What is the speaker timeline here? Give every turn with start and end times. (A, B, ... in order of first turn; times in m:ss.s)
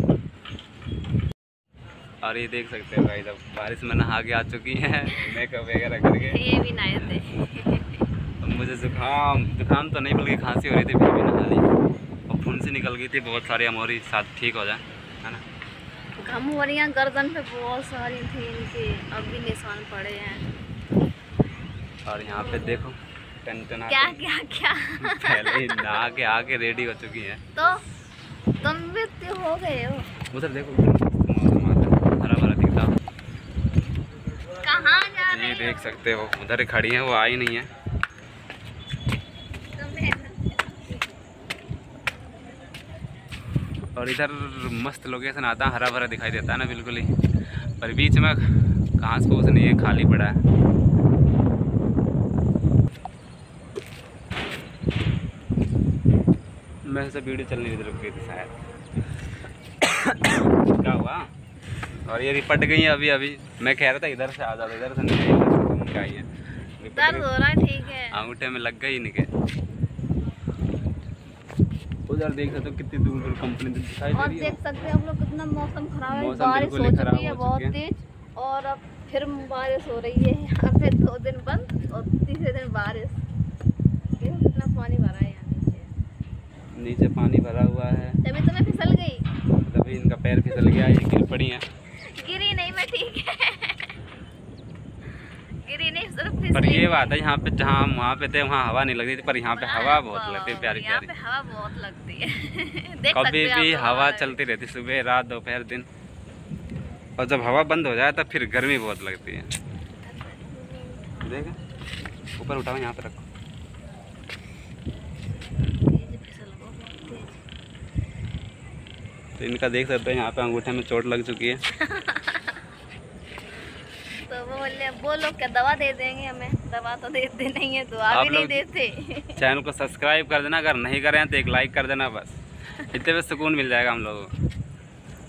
0:02.2-0:06.4 A
0:06.3-0:08.0 B
0:08.4-0:11.7 A
0:12.3-0:15.4 A
0:16.2-0:20.5 B
0:22.1-0:24.2 A
0:23.9-0:26.1 B
0:25.0-0:27.4 A
0:27.6-0:27.8 B
0:28.6-0:30.1 B
0:30.3-0:33.0 A
0:34.6-0:36.0 B
0:35.3-0:37.7 A
0:39.8-0:40.8 B
0:44.0-0:47.1 A
0:47.8-0:50.4 A
0:56.8-0:58.5 A
0:59.8-1:01.3 A
1:02.1-1:07.3 A
1:07.0-1:08.2 B
1:08.1-1:09.3 A
1:12.1-1:14.6 A
1:14.1-1:23.2 B
1:16.1-1:17.7 A
1:24.2-1:25.9 B
1:26.8-1:28.2 A
1:28.2-1:29.3 B
1:29.6-1:31.6 A
1:32.0-1:33.9 B
1:35.6-1:37.2 B
1:36.5-1:41.1 A
1:39.4-1:44.4 B
1:43.1-1:45.9 A
1:47.2-1:49.5 A
1:50.0-1:51.2 B
1:51.2-1:51.6 A
1:52.4-1:53.3 A
1:55.6-1:57.4 B
1:59.4-2:01.6 A
2:01.9-2:02.6 B
2:04.3-2:09.4 B
2:08.1-2:08.6 A
2:09.4-2:14.3 A